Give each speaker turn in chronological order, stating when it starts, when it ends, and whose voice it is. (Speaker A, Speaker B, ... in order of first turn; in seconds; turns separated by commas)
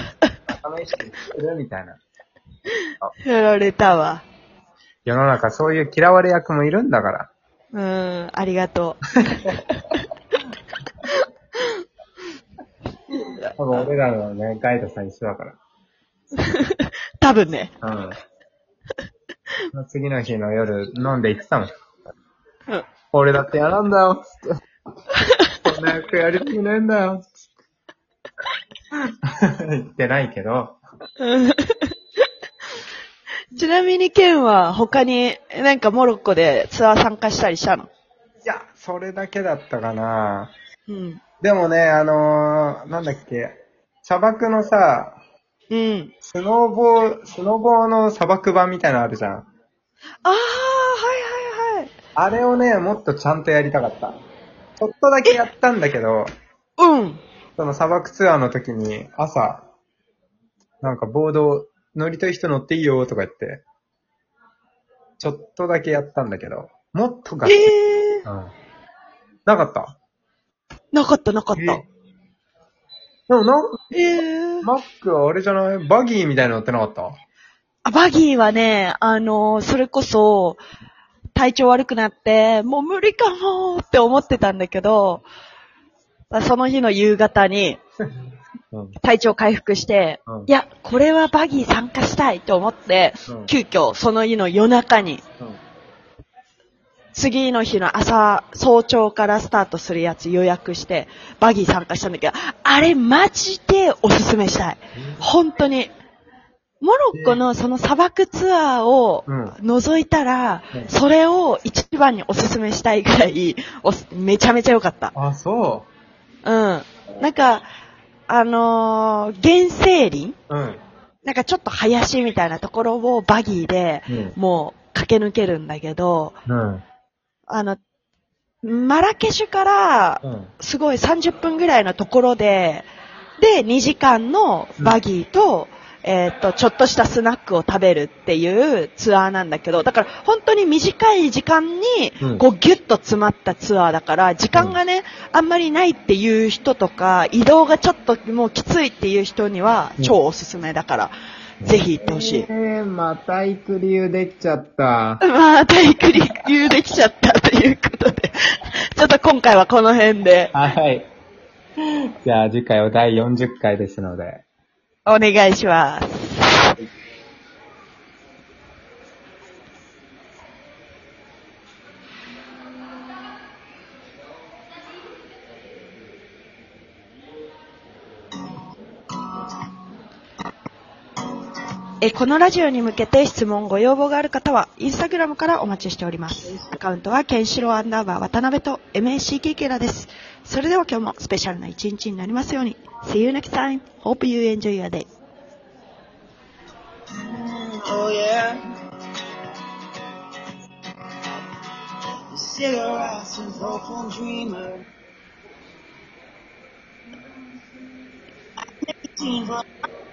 Speaker A: 0.5-2.0, Speaker B: 3.2-4.2, Speaker A: 5.1-7.3, Speaker B: 7.7-10.0, Speaker A: 9.2-9.6, Speaker B: 11.0-11.7, Speaker A: 13.6-15.6, Speaker B: 16.4-17.7, Speaker A: 17.8-18.2, Speaker A: 19.7-21.7, Speaker A: 23.1-24.6, Speaker B: 25.1-25.6, Speaker A: 25.6-27.5, Speaker A: 29.2-30.8, Speaker B: 31.2-31.9, Speaker B: 33.5-37.9, Speaker A: 38.4-40.5, Speaker B: 40.9-41.2, Speaker A: 41.4-45.2, Speaker B: 45.7-46.1, Speaker A: 46.2-49.5, Speaker B: 50.2-51.9, Speaker A: 52.2-54.2, Speaker A: 54.8-56.3, Speaker B: 56.8-57.2, Speaker A: 57.6-59.7, Speaker A: 60.8-63.6, Speaker A: 65.2-67.7, Speaker B: 67.5-68.2, Speaker A: 68.2-68.5, Speaker A: 69.5-69.9, Speaker B: 70.9-71.8, Speaker A: 71.6-71.8, Speaker A: 73.3-73.8, Speaker B: 73.9-74.7, Speaker A: 74.6-77.2, Speaker B: 77.8-80.6, Speaker B: 81.3-85.2, Speaker B: 86.3-87.8, Speaker B: 89.0-95.2, Speaker A: 93.3-93.5, Speaker B: 97.1-105.9, Speaker A: 105.0-105.2, Speaker B: 106.8-115.1, Speaker A: 107.1-107.4, Speaker A: 109.3-109.6, Speaker A: 115.1-115.9, Speaker B: 116.4-117.7, Speaker B: 118.3-120.4, Speaker A: 120.5-120.8, Speaker B: 121.2-126.4, Speaker A: 124.1-124.4, Speaker A: 126.5-126.8, Speaker B: 127.5-127.8, Speaker B: 128.6-132.9, Speaker A: 130.2-130.5, Speaker B: 133.4-152.5, Speaker A: 151.6-155.2, Speaker B: 155.2-160.5, Speaker A: 160.5-161.1, Speaker A: 161.8-164.4, Speaker B: 165.1-166.8, Speaker B: 182.0-195.1, Speaker C: 197.3-198.6, Speaker C: 202.3-204.8, Speaker C: 209.1-209.6